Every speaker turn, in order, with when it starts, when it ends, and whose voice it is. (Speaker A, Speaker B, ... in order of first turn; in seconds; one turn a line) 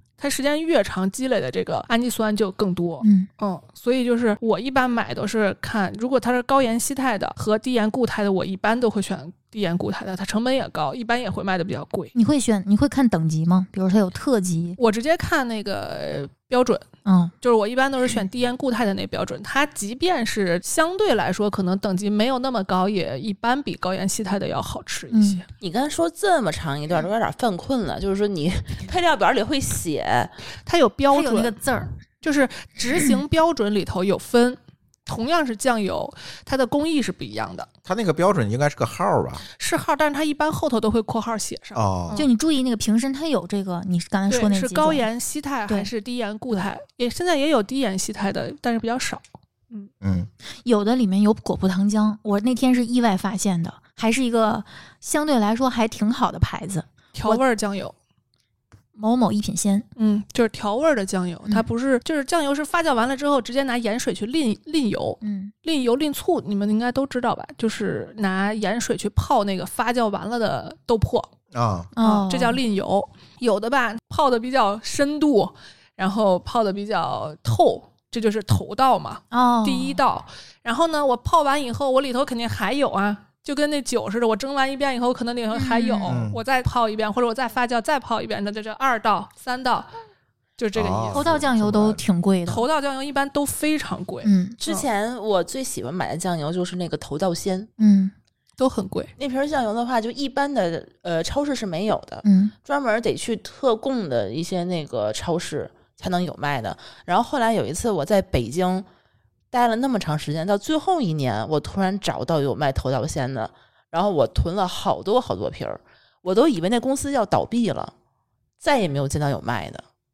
Speaker A: 0.2-12.1
Speaker B: 3.0-3.3
Speaker B: 12.1-14.8
Speaker A: 14.8-16.8
Speaker B: 17.0-17.3
Speaker A: 17.4-25.4
Speaker B: 25.1-25.4
Speaker C: 25.6-30.3
Speaker A: 30.6-31.6
Speaker B: 31.1-31.9
Speaker A: 32.2-37.7
Speaker D: 37.9-39.4
Speaker A: 39.6-42.3
Speaker D: 41.7-42.2
Speaker B: 42.1-45.0
Speaker A: 44.3-49.9
Speaker D: 50.0-50.3
Speaker B: 50.6-57.4
Speaker A: 57.1-57.9
Speaker B: 59.0-59.9
Speaker A: 60.0-71.3
Speaker B: 65.2-65.5
Speaker D: 71.5-71.9
Speaker B: 71.9-72.6
Speaker A: 72.0-89.9
Speaker B: 79.3-80.0
Speaker B: 85.5-86.2
Speaker D: 86.0-86.4
Speaker A: 90.6-91.3
Speaker D: 90.7-92.0
Speaker B: 91.1-92.7
Speaker A: 92.5-94.9
Speaker B: 94.2-94.6
Speaker C: 94.6-97.7
Speaker B: 97.8-98.1
Speaker A: 98.6-99.1
Speaker C: 99.2-108.8
Speaker B: 102.2-102.5
Speaker C: 109.5-117.9
Speaker C: 118.6-119.8